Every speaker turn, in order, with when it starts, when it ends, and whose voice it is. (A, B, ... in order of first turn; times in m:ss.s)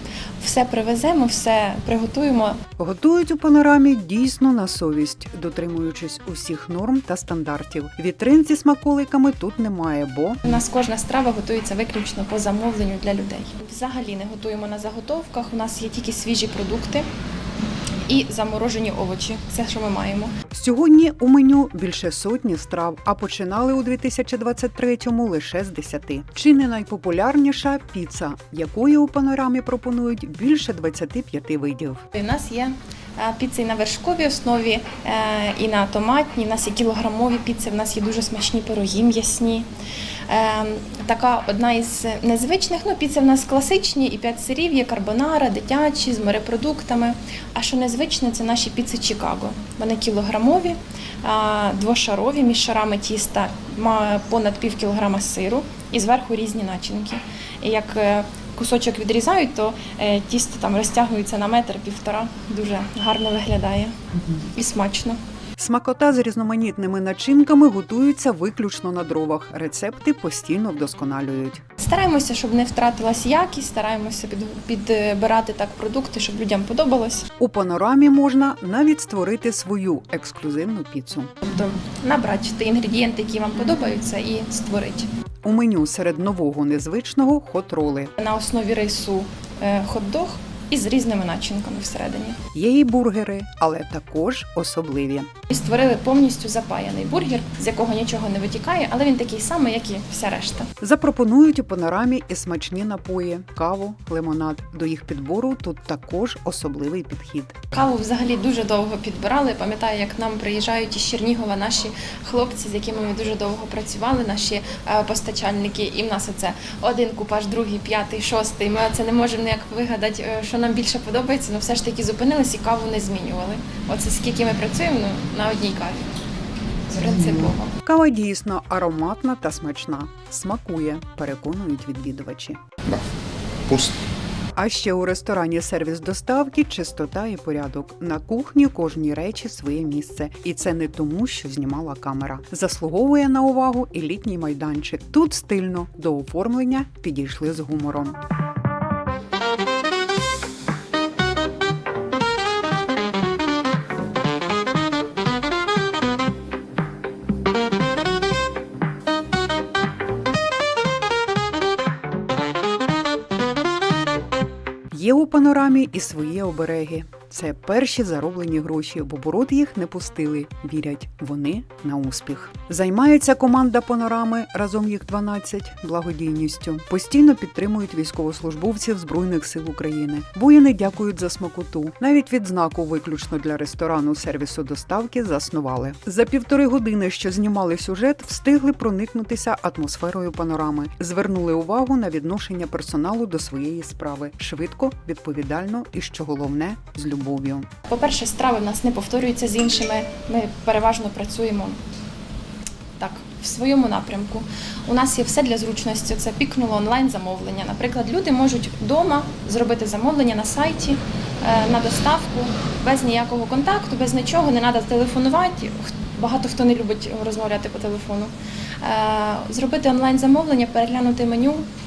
0:00.4-0:02.6 A
0:02.8-0:10.4 B
0:10.4-0:17.1 A
0:18.0-0:20.4 A
0:20.5-0:32.0 B
0:32.1-0:39.7 A
0:40.3-1:05.2 A
1:05.6-1:11.6 B
1:11.8-1:17.3 A
1:17.4-1:21.4 B
1:21.4-1:25.1 A
1:25.4-1:28.1 B
1:28.2-1:32.4 A
1:32.5-1:35.3 B
1:35.5-1:40.7 A
1:40.8-1:47.7 B
1:47.7-2:06.1 A
2:06.9-2:07.7 A
2:07.8-2:12.6 B
2:14.6-2:28.2 B
2:44.9-3:17.7 B
3:17.9-3:21.8 A
3:23.0-3:41.7 A